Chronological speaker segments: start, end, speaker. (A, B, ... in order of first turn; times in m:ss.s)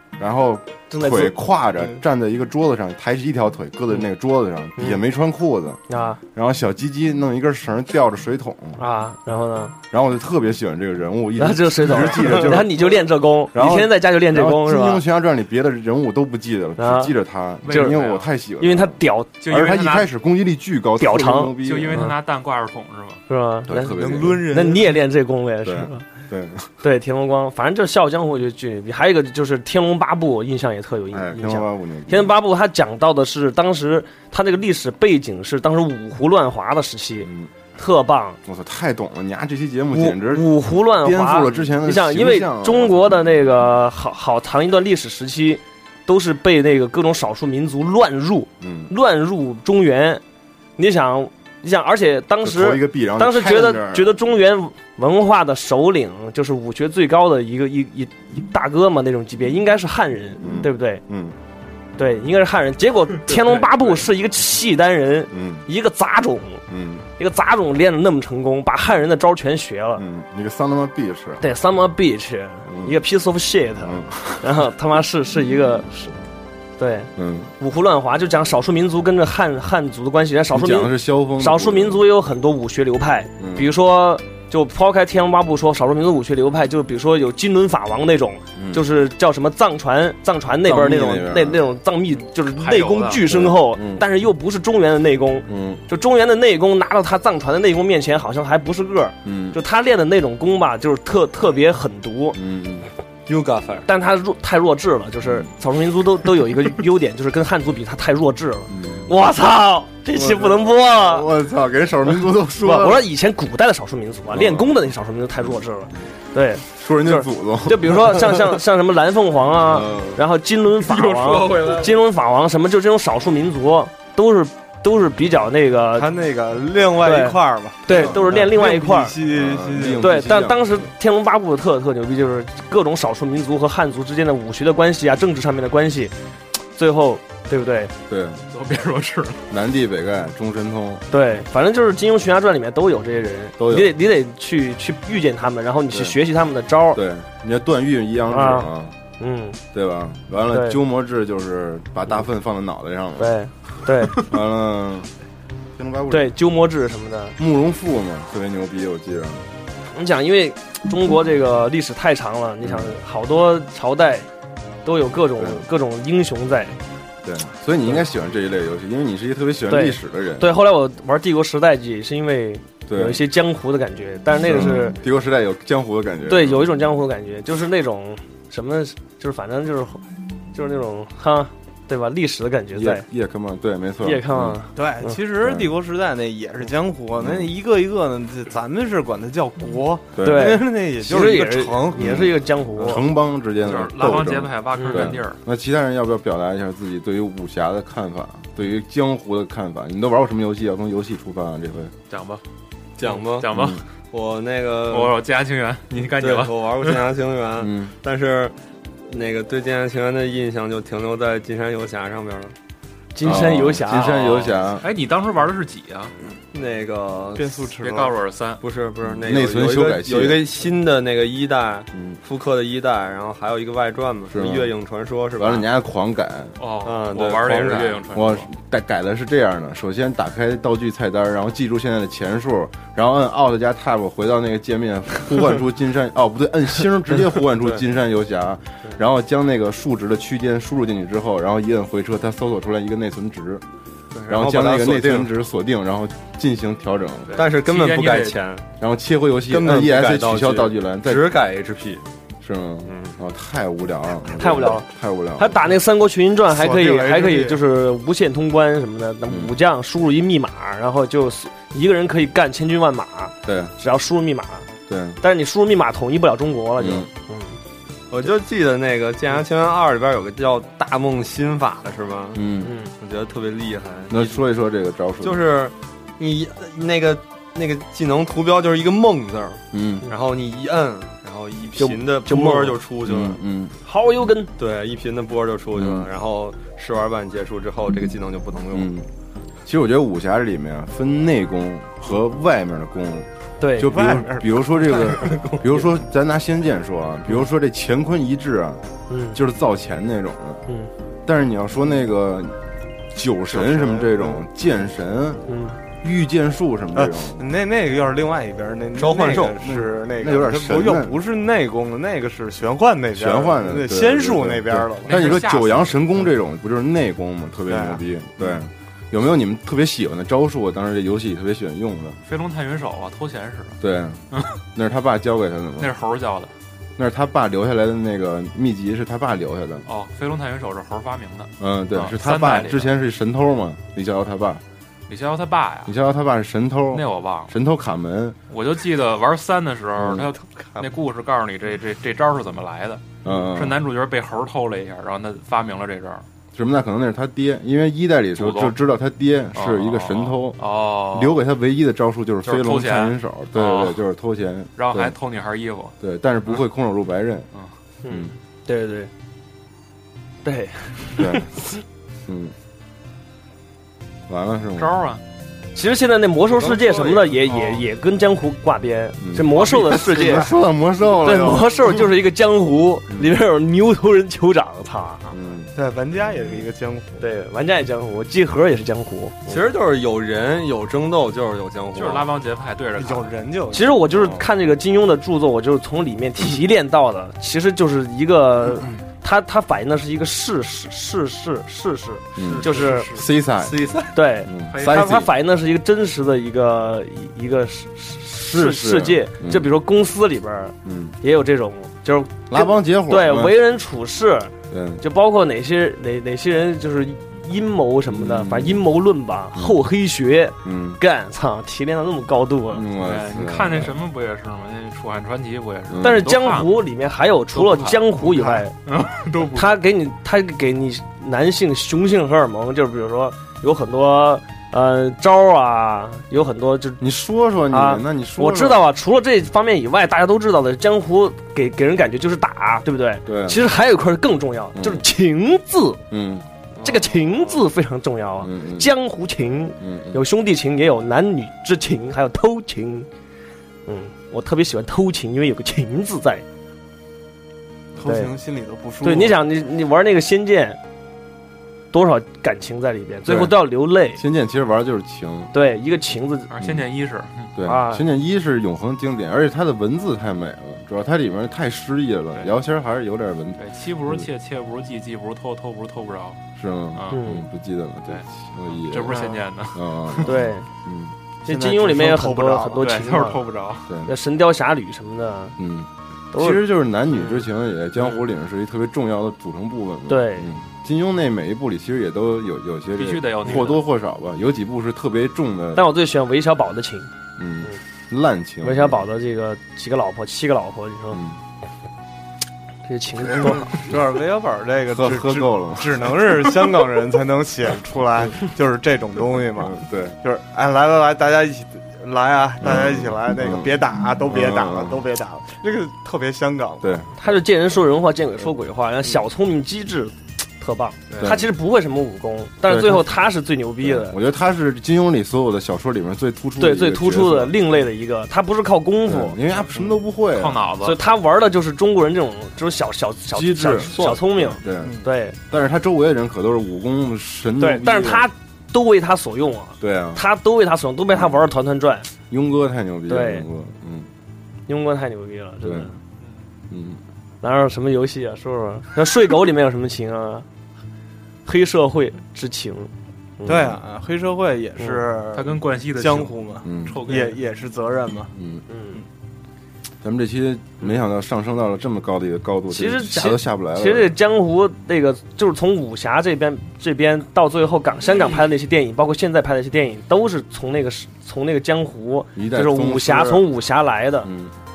0:00.2-0:05.8 A
0:00.9-0:01.3 B
0:05.9-0:06.2 B
0:06.3-0:08.8 A
0:08.8-0:09.8 B
0:09.9-0:22.1 A
0:11.4-0:15.0 B
0:16.8-0:17.1 B
0:17.6-0:18.3 C
0:17.7-0:18.0 B
0:18.6-0:19.4 B
0:19.4-0:20.1 C
0:21.0-0:22.2 B
0:21.6-0:23.2 C
0:23.3-0:26.0 B
0:23.7-0:24.4 A
0:23.9-0:25.0 D
0:25.6-0:26.7 A
0:26.8-0:38.4 B
0:31.1-0:32.3 A
0:37.2-0:37.5 A
0:38.4-0:43.2 A
0:39.9-0:50.2 B
0:48.6-0:48.9 A
0:50.8-1:01.0 B
0:52.4-0:54.2 A
1:00.4-1:01.4 A
1:02.0-1:06.6 B
1:05.3-1:05.6 A
1:06.7-1:07.1 A
1:07.2-1:10.0 B
1:10.0-1:11.4 A
1:11.4-1:16.1 B
1:12.7-1:13.0 A
1:13.8-1:14.6 A
1:16.8-1:42.4 B
1:17.2-1:17.5 A
1:20.5-1:22.1 A
1:23.4-1:23.7 A
1:28.5-1:28.9 A
1:30.6-1:31.7 A
1:32.5-1:33.2 C
1:33.2-1:34.0 A
1:35.5-1:35.8 A
1:39.2-1:39.6 A
1:42.3-1:42.9 A
1:43.2-1:43.9 E
1:43.9-1:51.3 B
1:45.2-1:45.5 A
1:48.7-1:49.1 A
1:50.1-1:53.1 A
1:52.6-2:06.1 B
1:54.3-1:54.8 A
1:56.7-1:58.4 A
1:59.6-2:00.2 A
2:00.9-2:01.9 C
2:05.9-2:10.1 D
2:07.0-2:09.2 B
2:07.9-2:08.5 A
2:09.2-2:10.9 A
2:10.0-2:16.1 B
2:16.8-2:17.9 B
2:18.1-2:18.4 A
2:18.5-2:19.4 C
2:19.5-2:21.0 A
2:21.1-2:27.0 B
2:23.6-2:23.9 A
2:25.9-2:26.2 A
2:26.9-2:29.0 A
2:28.3-2:29.6 B
2:29.7-2:33.4 A
2:30.5-2:30.8 B
2:33.2-2:34.3 B
2:34.2-2:35.1 A
2:35.8-2:36.3 A
2:36.1-2:37.4 B
2:37.4-2:39.4 A
2:39.9-2:44.3 B
2:42.6-2:42.9 A
2:44.8-2:46.8 B
2:45.4-2:45.6 A
2:47.2-2:50.5 A
2:49.7-2:55.0 B
2:52.9-2:53.2 A
2:54.4-2:56.7 A
2:56.2-3:00.0 B
3:00.5-3:03.0 B
3:02.7-3:04.6 A
3:04.0-3:05.2 B
3:04.7-3:12.2 D
3:05.4-3:05.7 A
3:07.2-3:07.5 A
3:10.2-3:10.6 A
3:10.2-3:13.0 B
3:11.9-3:21.9 A
3:13.6-3:15.4 C
3:14.8-3:15.1 B
3:22.1-3:22.4 C
3:23.0-3:23.5 E
3:23.2-3:23.8 C
3:23.5-3:23.8 A
3:24.1-3:25.1 E
3:24.9-3:27.0 C
3:26.2-3:28.5 E
3:27.6-3:27.9 A
3:29.1-3:32.5 E
3:33.1-3:34.4 B
3:33.2-3:34.9 A
3:34.7-3:36.1 C
3:36.5-3:37.6 E
3:37.4-3:38.2 D
3:37.8-3:38.6 C
3:38.6-3:45.6 E
3:39.2-3:40.4 A
3:41.9-3:42.2 A
3:44.3-3:44.7 A
3:45.4-3:46.5 A
3:46.6-3:48.5 C
3:46.8-3:48.0 E
3:48.1-4:03.6 A
4:04.1-4:05.3 E
4:04.3-4:07.4 A
4:07.3-4:08.6 E
4:07.4-4:08.4 C
4:08.8-4:11.3 A
4:09.5-4:12.0 E
4:12.4-4:15.6 A
4:12.8-4:13.1 E
4:14.3-4:14.8 B
4:15.4-4:24.7 B
4:16.4-4:17.6 D
4:19.3-4:19.6 A
4:23.4-4:23.7 A
4:24.9-4:25.2 A
4:25.2-4:27.6 B
4:26.8-4:27.1 A
4:28.1-4:32.4 E
4:32.3-4:32.7 A
4:32.6-4:32.9 B
4:33.0-4:34.4 E
4:34.1-4:35.4 A
4:35.2-4:43.4 E
4:39.7-4:40.1 A
4:41.8-4:42.8 B
4:43.0-4:43.8 A
4:43.8-4:44.5 B
4:44.6-4:48.9 E
4:45.8-4:46.1 A
4:48.7-4:49.1 A
4:49.6-5:00.6 A
4:53.6-4:54.0 B
4:53.8-4:55.5 D
4:59.1-4:59.4 B
5:01.2-5:02.6 A
5:03.1-5:05.4 A
5:03.5-5:04.4 D
5:05.5-5:05.8 B
5:06.0-5:07.4 A
5:07.0-5:15.4 D
5:08.9-5:09.6 E
5:09.4-5:11.2 A
5:13.1-5:22.2 A
5:15.0-5:16.1 C
5:17.7-5:18.5 D
5:22.2-5:23.8 C
5:23.8-5:25.9 A
5:24.3-5:24.6 C
5:25.8-5:26.5 C
5:27.0-5:29.8 A
5:29.8-5:32.9 C
5:31.6-5:34.6 A
5:35.1-5:35.9 C
5:35.8-5:38.4 A
5:36.9-5:37.5 C
5:38.5-5:46.2 C
5:40.0-5:40.3 A
5:43.2-5:43.8 A
5:46.5-5:50.6 A
5:48.4-5:48.8 C
5:49.5-5:51.4 C
5:51.1-5:55.1 A
5:52.4-5:54.0 C
5:54.8-5:56.0 C
5:56.0-5:57.5 A
5:58.0-5:59.1 B
5:58.1-5:58.3 A
6:00.4-6:01.4 B
6:01.2-6:01.5 A
6:02.3-6:02.5 A
6:04.3-6:05.0 A
6:04.8-6:05.2 C
6:05.7-6:10.5 B
6:06.5-6:07.8 C
6:09.2-6:11.7 A
6:11.2-6:15.2 B
6:15.3-6:15.7 A
6:15.7-6:17.2 D
6:17.2-6:19.6 B
6:19.4-6:22.3 E
6:21.9-6:23.3 C
6:23.0-6:24.0 D
6:23.7-6:33.1 B
6:24.1-6:24.5 A
6:32.4-6:33.8 A
6:32.4-6:33.0 C
6:33.6-6:34.1 E
6:34.1-6:52.8 B
6:34.4-6:35.3 A
6:34.7-6:35.2 C
6:38.4-6:39.7 A
6:40.8-6:41.2 A
6:42.5-6:43.6 A
6:44.7-6:45.0 A
6:48.0-6:48.8 A
6:50.6-6:51.0 A
6:52.7-6:53.9 A
6:53.0-6:56.7 C
6:55.9-6:56.3 A
6:56.0-6:58.7 B
6:57.5-6:59.8 C
6:59.5-7:07.0 B
7:07.0-7:08.8 A
7:07.7-7:16.0 B
7:13.2-7:13.6 A
7:14.7-7:15.0 A
7:16.1-7:16.4 A
7:16.8-7:23.1 B
7:18.4-7:18.9 A
7:19.8-7:20.2 A
7:23.8-7:26.4 B
7:27.9-7:29.4 D
7:28.0-7:28.3 B
7:29.0-7:30.8 B
7:31.9-7:34.2 B
7:33.2-7:33.6 A
7:34.1-7:35.5 A
7:35.5-7:36.5 B
7:36.5-7:37.5 C
7:36.6-7:36.8 A
7:37.6-7:44.3 A
7:37.6-7:38.0 B
7:43.6-7:46.4 C
7:46.6-7:51.1 A
7:46.9-7:47.2 C
7:47.1-7:47.4 B
7:48.1-7:50.3 C
7:49.1-7:49.4 D
7:50.2-7:50.7 B
7:51.4-7:52.8 D
7:51.5-7:53.5 B
7:52.8-7:53.9 C
7:54.0-7:55.6 B
7:55.6-8:05.9 A
7:56.3-7:57.4 B
8:00.1-8:00.5 B
8:03.0-8:03.8 C
8:05.7-8:07.1 B
8:07.4-8:09.0 A
8:08.6-8:11.2 B
8:11.1-8:11.4 A
8:12.8-8:13.8 B
8:13.3-8:26.9 D
8:14.9-8:16.1 A
8:19.6-8:20.2 A
8:22.6-8:25.0 A
8:26.8-8:27.1 A
8:27.2-8:34.1 B
8:31.2-8:31.4 A
8:32.6-8:33.2 A
8:33.8-8:37.6 A
8:36.6-8:39.4 B
8:39.0-8:40.7 A
8:40.3-8:41.0 C
8:40.8-8:45.4 B
8:43.3-8:48.3 A
8:44.8-8:45.1 D
8:47.6-8:52.1 B
8:49.8-8:50.2 A
8:51.1-8:51.4 A
8:52.3-8:54.1 A
8:53.1-8:53.4 B
8:54.7-8:56.0 B
8:55.6-8:55.9 A
8:56.7-8:57.0 A
8:57.4-9:00.4 B
9:01.4-9:03.6 B
9:03.4-9:08.3 D
9:05.3-9:07.4 C
9:06.6-9:07.0 A
9:08.4-9:08.6 A
9:08.7-9:09.0 B
9:10.0-9:14.2 A
9:12.7-9:24.3 B
9:22.4-9:23.5 A
9:24.2-9:24.5 A